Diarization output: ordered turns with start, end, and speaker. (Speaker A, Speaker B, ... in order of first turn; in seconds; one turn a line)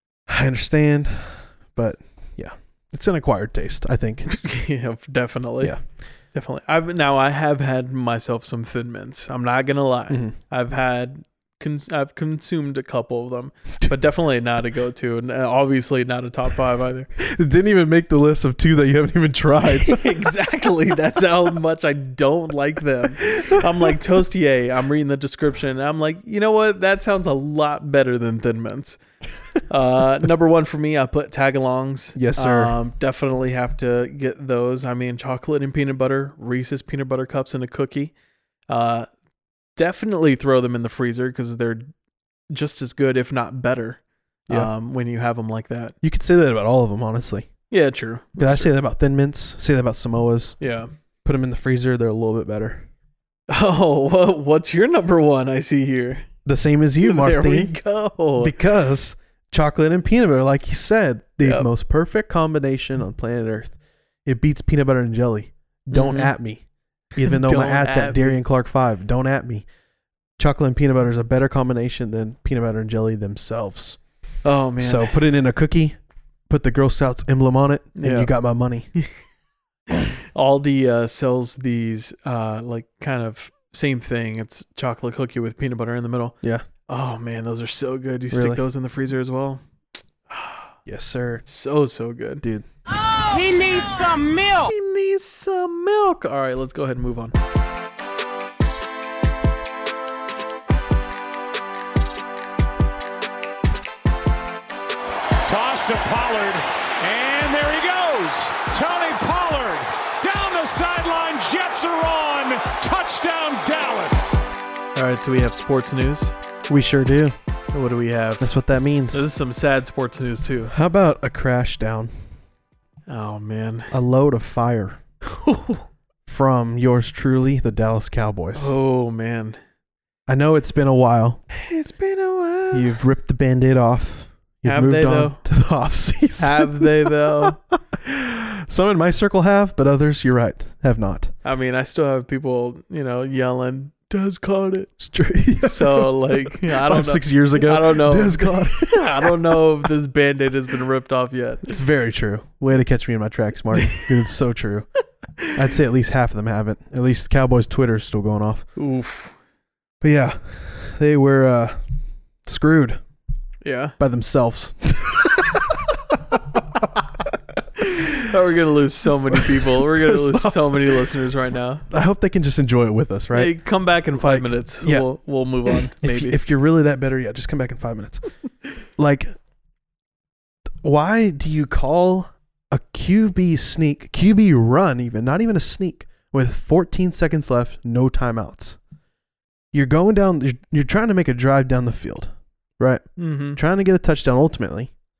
Speaker A: 0.3-4.3
Speaker B: 4.3-5.8
Speaker B: 6.3-17.1
Speaker A: 17.2-20.1
Speaker B: 19.7-29.0
Speaker A: 23.3-23.9
Speaker B: 29.7-38.1
Speaker A: 32.1-32.7
Speaker B: 38.7-39.1
Speaker B: 39.8-41.9
Speaker B: 42.5-45.9
Speaker A: 46.0-47.5
Speaker B: 47.7-48.7
Speaker A: 48.4-50.6
Speaker B: 50.6-50.9
Speaker A: 51.2-52.9
Speaker B: 53.5-56.2
Speaker A: 56.4-57.7
Speaker B: 57.0-58.5
Speaker A: 58.4-66.6
Speaker B: 61.4-61.7
Speaker B: 65.9-66.3
Speaker A: 67.2-69.7
Speaker B: 67.2-68.4
Speaker A: 70.4-74.0
Speaker B: 74.4-75.2
Speaker A: 74.8-76.0
Speaker A: 76.5-78.9
Speaker B: 78.0-78.3
Speaker B: 80.0-86.3
Speaker B: 86.9-89.6
Speaker A: 88.3-88.6
Speaker B: 90.3-90.7
Speaker A: 90.8-91.4
Speaker B: 91.5-92.4
Speaker A: 92.4-92.7
Speaker B: 94.3-97.3
Speaker C: 105.4-114.4
Speaker B: 114.9-116.3
Speaker A: 116.7-117.3
Speaker B: 117.7-118.4
Speaker A: 118.4-119.3
Speaker B: 119.1-120.7
Speaker A: 120.7-122.1
Speaker B: 123.1-123.9
Speaker A: 123.9-125.0
Speaker B: 125.2-125.8
Speaker A: 126.3-128.7
Speaker B: 128.5-129.6
Speaker A: 130.3-131.4
Speaker B: 131.5-133.0
Speaker A: 132.7-141.3
Speaker B: 134.6-135.4
Speaker B: 136.4-137.6
Speaker B: 141.4-144.9
Speaker A: 145.0-149.3
Speaker B: 145.6-151.7
Speaker A: 151.6-154.9
Speaker A: 155.5-158.7
Speaker B: 158.8-159.3
Speaker A: 160.0-161.8
Speaker A: 162.4-163.0
Speaker B: 163.6-163.9
Speaker A: 164.0-166.6
Speaker B: 167.8-171.8
Speaker A: 169.3-171.1
Speaker A: 171.9-173.5
Speaker B: 173.3-176.4
Speaker A: 174.2-175.1
Speaker A: 175.7-178.2
Speaker A: 179.0-179.3
Speaker A: 180.8-188.8
Speaker A: 189.7-194.9
Speaker B: 193.2-193.6